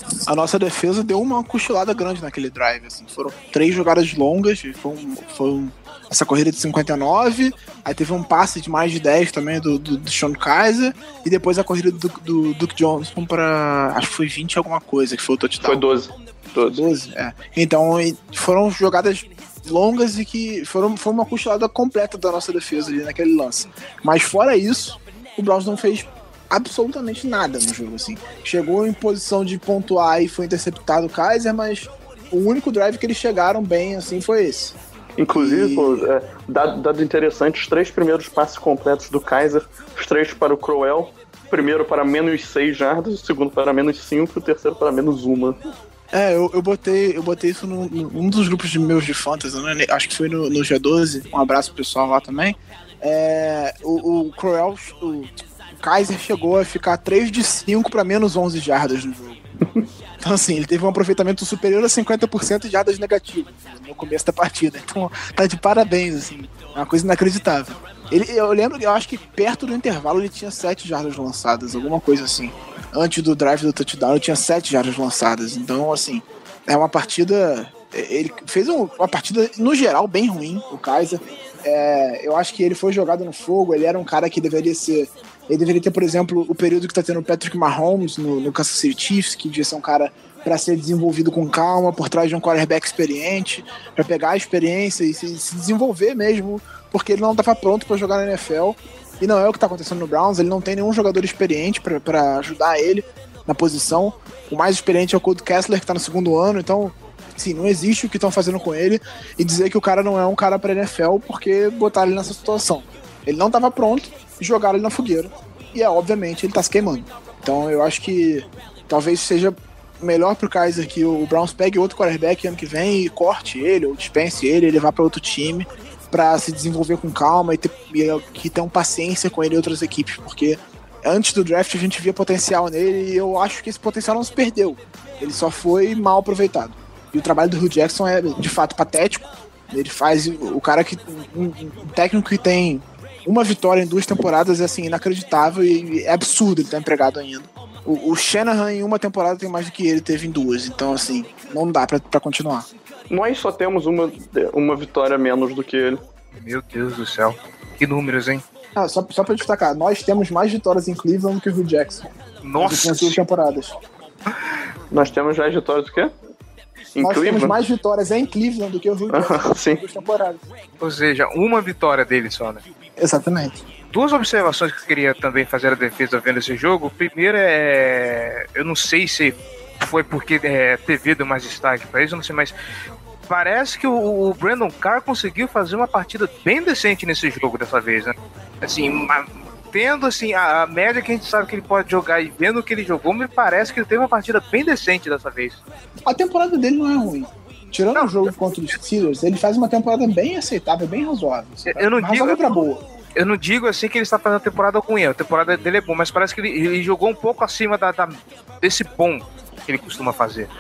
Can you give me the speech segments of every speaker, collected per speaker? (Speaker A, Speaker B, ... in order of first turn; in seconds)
Speaker A: 0.2-15.8, 16.7-34.8, 35.3-36.1, 46.1-59.4, 60.2-152.7, 158.8-163.8, 167.0-170.4, 173.0-173.6, 196.1-202.8
Speaker B: 15.6-16.8, 35.2-45.6, 153.1-156.0, 164.9-166.1, 166.9-167.6, 169.1-169.8
Speaker C: 156.4-158.4, 162.4-163.2, 170.8-172.6, 173.9-182.5, 183.3-195.6, 197.9-198.3, 201.7-202.6, 203.2-210.5